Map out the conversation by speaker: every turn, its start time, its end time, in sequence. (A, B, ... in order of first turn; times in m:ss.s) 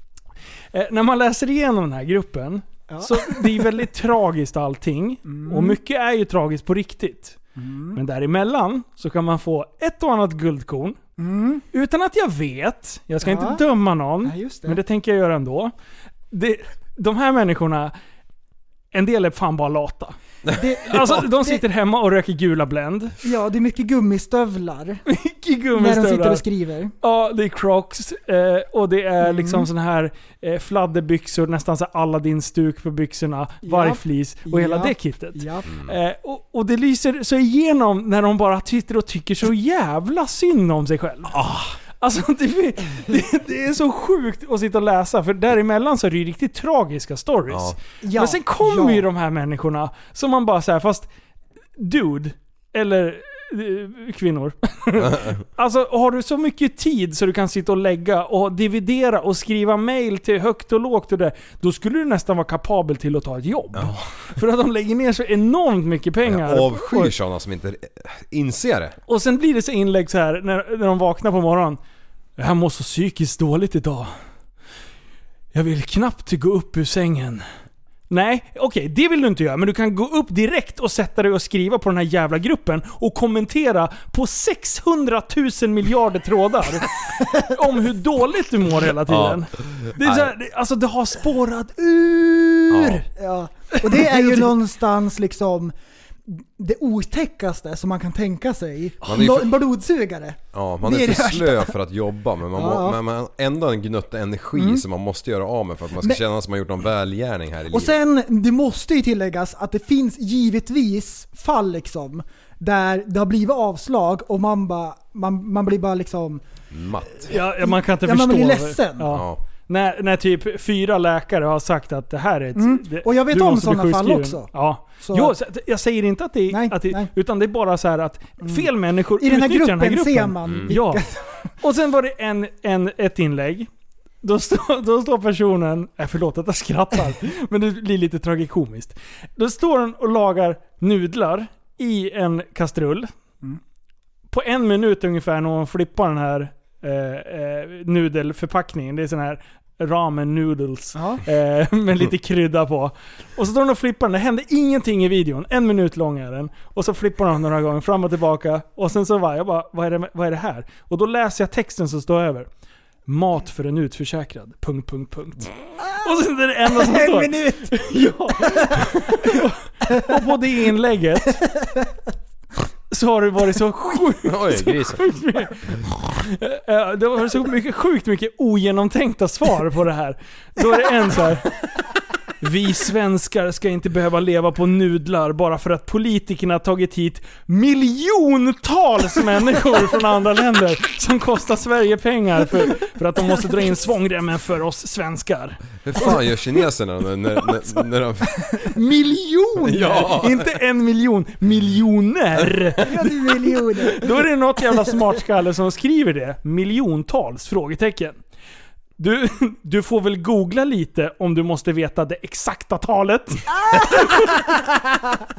0:00.7-0:07.4 A
0:02.9-0:03.7 B
0:05.3-0:05.8 B
0:07.6-0:08.0 B
0:08.0-0:11.0 A
0:11.2-0:11.6 B
0:11.7-0:15.7 A
0:13.2-0:13.6 B
0:14.2-0:14.8 B
0:16.3-0:17.9 A
0:18.9-0:20.2 A
0:20.5-0:21.6 B
0:20.8-0:23.2 A
0:23.2-0:25.0 B
0:25.1-0:26.4 A
0:25.8-0:26.9 B
0:27.0-0:41.4 A
0:29.2-0:29.7 B
0:33.6-0:35.7 B
0:41.3-0:41.8 C
0:42.0-0:51.1 A
0:47.5-0:47.8 C
0:48.0-0:49.1 B
0:51.8-1:07.1 A
0:55.0-0:55.4 C
1:03.7-1:04.1 C
1:06.2-1:09.0 C
1:09.1-1:11.8 A
1:12.4-1:14.1 A
1:15.5-1:17.4 A
1:18.1-1:33.0 A
1:27.2-1:27.4 B
1:29.0-1:30.3 C
1:32.7-1:33.0 C
1:33.1-1:35.7 B
1:33.7-1:34.5 A
1:36.3-1:41.7 B
1:39.0-1:39.6 C
1:40.5-1:48.0 C
1:42.5-1:43.0 B
1:44.6-1:44.8 B
1:47.7-1:56.4 B
1:56.7-1:57.3 C
1:57.2-1:59.1 B
1:57.3-2:11.0 A
1:59.1-1:59.4 C
2:02.6-2:05.4 B
2:06.5-2:07.1 B
2:08.4-2:11.2 B
2:10.4-2:10.7 C
2:11.6-2:13.7 A
2:14.2-2:23.1 A
2:24.3-2:42.5 A
2:31.0-2:31.2 B
2:43.1-2:51.4 A
2:46.7-2:47.9 B
2:48.4-2:49.3 B
2:51.4-2:51.9 B
2:52.9-3:01.5 A
2:54.2-2:55.0 C
3:02.4-3:16.1 A
3:15.8-3:18.7 C
3:18.8-3:22.9 A
3:19.6-3:20.5 C
3:22.8-3:24.2 B
3:23.8-3:28.2 A
3:29.0-3:34.4 A
3:33.7-3:34.4 B